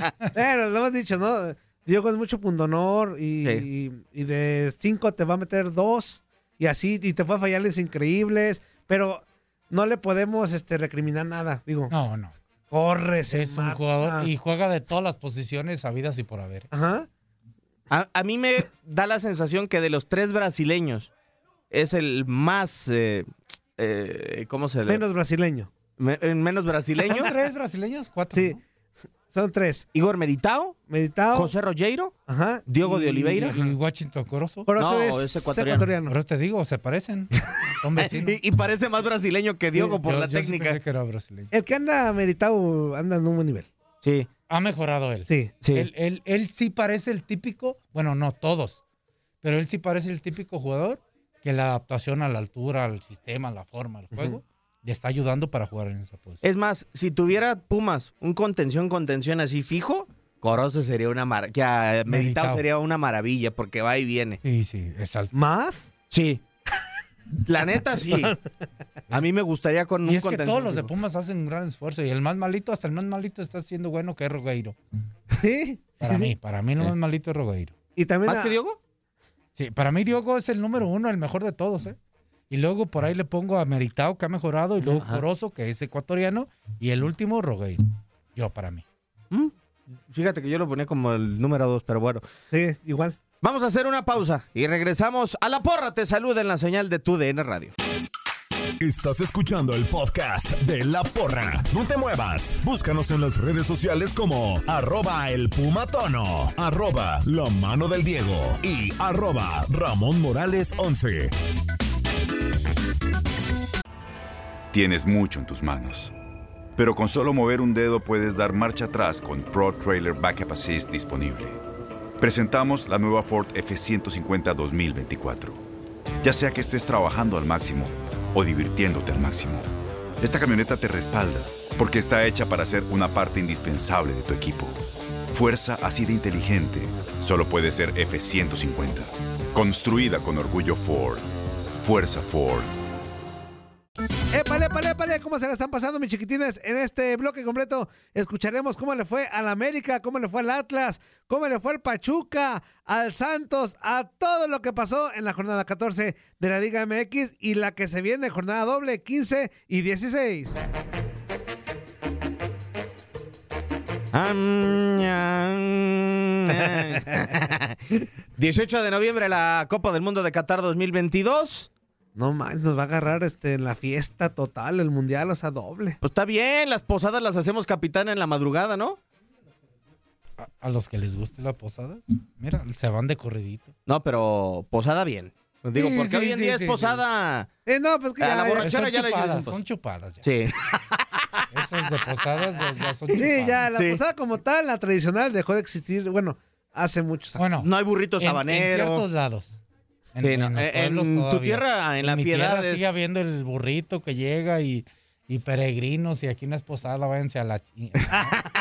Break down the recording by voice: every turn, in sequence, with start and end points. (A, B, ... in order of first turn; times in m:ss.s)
0:00.3-0:11.9 A
0:11.9-0:12.4 B
0:12.7-0:14.3 A
0:13.3-0:16.7 B
0:16.7-0:17.1 A
0:17.9-0:21.1 C
0:21.7-0:25.0 C
0:24.9-0:25.7 A
0:26.0-0:27.3 C
0:27.1-0:28.6 B
0:28.3-0:28.6 A
0:29.3-0:29.9 A
0:29.9-0:30.8 C
0:30.9-0:31.5 A
0:31.3-0:32.2 C
0:32.3-0:33.6 A
0:32.7-0:33.7 C
0:33.4-0:34.7 B
0:34.7-0:36.1 A
0:34.8-0:35.9 C
0:36.1-0:38.4 B
0:38.0-0:40.8 C
0:40.0-0:41.5 B
0:41.5-0:43.7 A
0:44.0-0:44.3 C
0:44.5-0:48.8 B
0:45.3-0:45.5 A
0:45.6-0:45.9 C
0:49.4-0:56.4 B
0:54.1-0:54.4 A
0:56.4-1:04.4 C
1:02.1-1:02.6 B
1:04.4-1:05.3 B
1:05.3-1:05.9 A
1:06.1-1:06.4 C
1:07.4-1:08.4 C
1:08.0-1:08.4 A
1:09.1-1:10.9 C
1:10.0-1:14.8 B
1:15.3-1:16.3 A
1:16.0-1:17.7 B
1:18.0-1:18.6 A
1:18.3-1:18.8 C
1:19.6-1:22.0 B
1:22.5-1:27.8 B
1:24.8-1:25.2 C
1:28.4-1:28.8 B
1:30.1-1:32.2 C
1:32.5-1:33.2 A
1:33.4-1:37.7 C
1:38.8-1:51.3 D
1:54.7-1:56.1 E
1:56.8-2:01.6 E
2:02.2-2:05.6 E
2:06.2-2:21.3 E
2:21.8-2:22.7 E
2:24.3-2:40.6 A
2:44.1-2:51.7 C
2:46.5-2:47.2 A
2:52.2-2:56.0 A
2:56.0-2:59.0 C
3:00.4-3:03.7 B
3:03.9-3:07.5 C
3:05.8-3:07.0 B
3:07.7-3:08.7 A
3:08.2-3:09.6 C
3:08.6-3:10.2 B
3:10.2-3:11.4 C
3:11.5-3:13.6 B
3:13.1-3:17.4 A
3:13.7-3:14.0 C
3:17.4-3:17.7 B
3:17.6-3:19.0 C
3:18.2-3:19.6 B
3:20.2-3:28.2 B
3:20.2-3:23.0 C
3:28.1-3:28.5 A